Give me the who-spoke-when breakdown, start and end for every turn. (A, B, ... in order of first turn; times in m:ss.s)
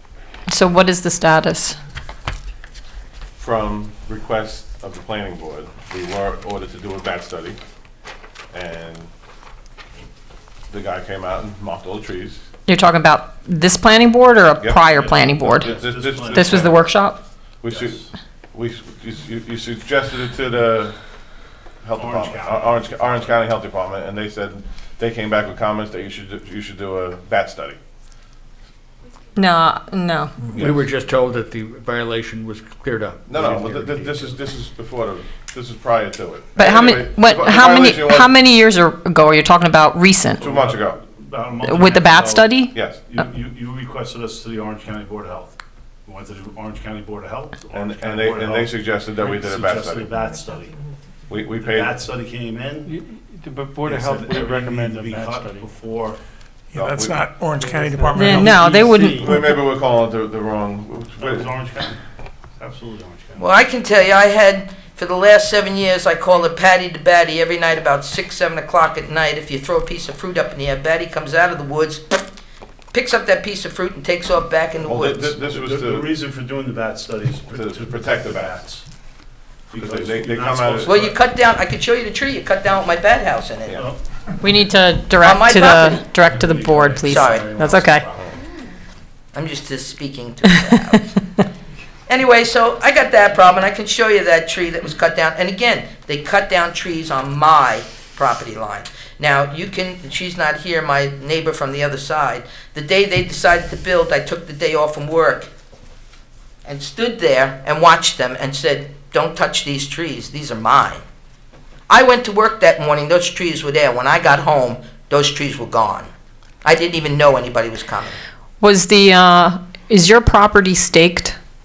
0:00.5-0:01.8 A
0:03.4-0:07.6 B
0:08.5-0:09.1 B
0:10.7-0:12.4 B
0:12.7-0:15.7 A
0:14.6-0:14.9 B
0:15.0-0:16.8 C
0:15.4-0:16.8 B
0:16.3-0:17.2 A
0:17.6-0:21.0 B
0:17.7-0:18.1 C
0:21.8-0:27.8 B
0:22.0-0:23.4 C
0:29.4-0:30.5 A
0:30.5-0:34.3 D
0:33.3-0:38.3 B
0:36.6-0:40.4 A
0:40.4-0:42.5 C
0:40.4-0:41.0 B
0:41.6-0:42.7 A
0:42.7-0:43.0 B
0:43.0-0:50.8 C
0:47.7-0:50.2 B
0:51.3-0:52.0 B
0:51.6-0:53.0 C
0:52.9-0:55.7 E
0:53.8-0:56.2 C
0:56.7-0:58.7 F
0:56.7-0:57.3 B
0:57.6-0:59.4 E
0:58.1-0:59.4 A
0:59.1-1:01.5 B
1:01.2-1:02.0 C
1:02.6-1:03.5 C
1:03.4-1:12.0 G
1:12.9-1:15.4 G
1:14.8-1:16.1 B
1:15.4-1:18.8 C
1:17.5-1:18.6 B
1:19.7-1:21.2 C
1:19.8-1:21.0 B
1:20.8-1:23.8 G
1:23.7-1:24.0 C
1:24.4-1:28.0 A
1:25.2-1:26.0 G
1:26.2-1:28.4 C
1:27.1-1:27.5 G
1:29.3-1:31.1 G
1:32.1-1:45.5 G
1:46.6-1:51.0 G
1:51.9-1:56.1 G
1:56.6-1:58.2 G
1:58.6-2:01.4 A